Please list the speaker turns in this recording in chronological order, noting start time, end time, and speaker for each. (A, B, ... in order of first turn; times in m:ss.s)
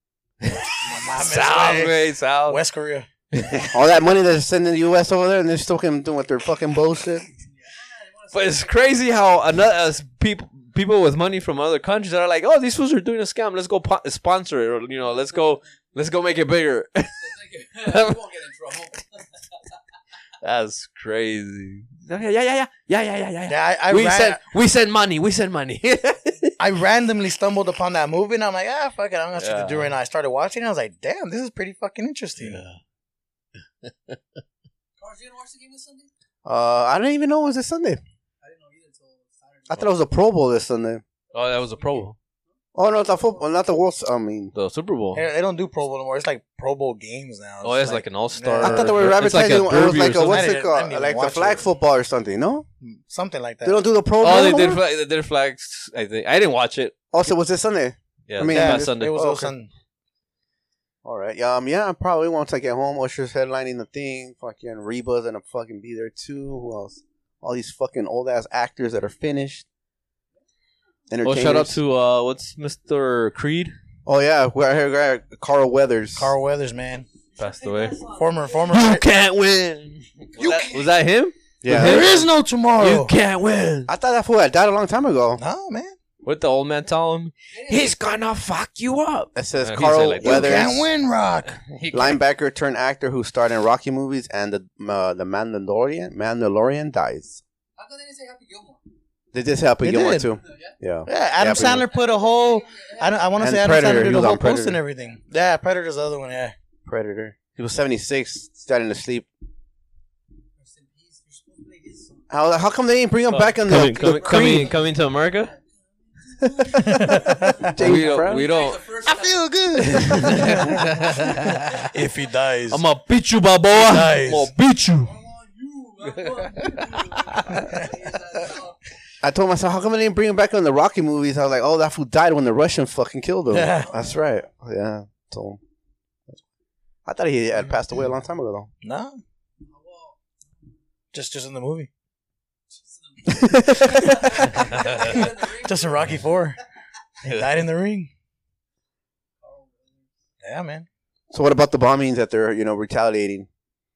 0:00.4-0:02.6 A
0:00.8-0:03.1 B
0:03.3-0:03.7 A
0:03.7-0:07.3 C
0:07.4-0:09.2 D
0:08.3-0:17.3 A
0:15.1-0:15.6 D
0:17.2-0:19.3 D
0:17.8-0:18.2 A
0:20.4-0:26.6 A
0:23.5-0:24.4 B
0:26.6-0:32.6 B
0:29.4-0:29.9 A
0:32.4-0:32.8 A
0:33.8-0:34.2 A
0:35.0-0:36.1 D
0:36.4-0:38.0 C
0:38.4-0:40.0 D
0:39.7-0:41.0 C
0:41.3-0:42.2 A
0:41.4-0:42.1 D
0:42.8-0:44.5 C
0:44.6-0:45.2 A
0:45.1-0:49.1 B
0:47.6-0:50.5 A
0:48.6-0:52.7 C
0:50.1-0:51.6 B
0:52.8-0:53.8 B
0:53.6-0:54.8 C
0:54.2-0:57.0 A
0:57.1-0:59.5 C
0:58.3-0:59.5 A
0:58.5-0:59.7 B
1:01.0-1:09.6 C
1:11.1-1:11.8 C
1:11.2-1:13.7 A
1:14.1-1:16.3 C
1:16.2-1:17.1 B
1:17.3-1:18.7 D
1:17.4-1:18.0 A
1:18.1-1:19.1 B
1:18.7-1:23.9 A
1:20.4-1:20.8 B
1:21.6-1:22.2 C
1:21.7-1:23.1 B
1:23.9-1:25.4 C
1:25.4-1:26.0 B
1:26.2-1:30.9 A
1:27.5-1:28.0 D
1:29.4-1:30.8 C
1:30.2-1:31.6 B
1:31.7-1:32.2 A
1:31.9-1:37.4 C
1:37.8-1:38.8 D
1:39.3-1:41.9 C
1:39.8-1:40.3 B
1:40.4-1:40.8 D
1:41.1-1:46.6 B
1:41.5-1:43.4 D
1:43.4-1:44.8 C
1:46.9-1:49.3 C
1:50.6-1:52.3 D
1:52.3-1:54.7 C
1:53.3-1:55.5 A
1:53.8-2:00.4 D
1:56.7-1:57.7 B
1:56.7-1:58.5 C
1:57.8-1:58.8 A
1:59.1-2:00.7 C
1:59.8-2:02.0 A
2:00.3-2:00.9 B
2:01.6-2:01.9 D
2:01.8-2:02.8 B
2:02.7-2:05.1 A
2:03.7-2:04.5 B
2:05.0-2:08.8 D
2:06.3-2:07.8 A
2:09.2-2:15.6 C
2:13.5-2:13.9 B
2:13.8-2:14.2 D
2:17.1-2:18.7 C
2:18.8-2:19.2 B
2:19.7-2:20.2 D
2:21.1-2:21.9 B
2:22.7-2:26.2 D
2:23.3-2:24.3 C
2:24.1-2:26.6 B
2:24.7-2:25.1 A
2:27.2-2:28.1 B
2:29.4-2:30.1 D
2:30.4-2:30.9 B
2:31.3-2:33.5 C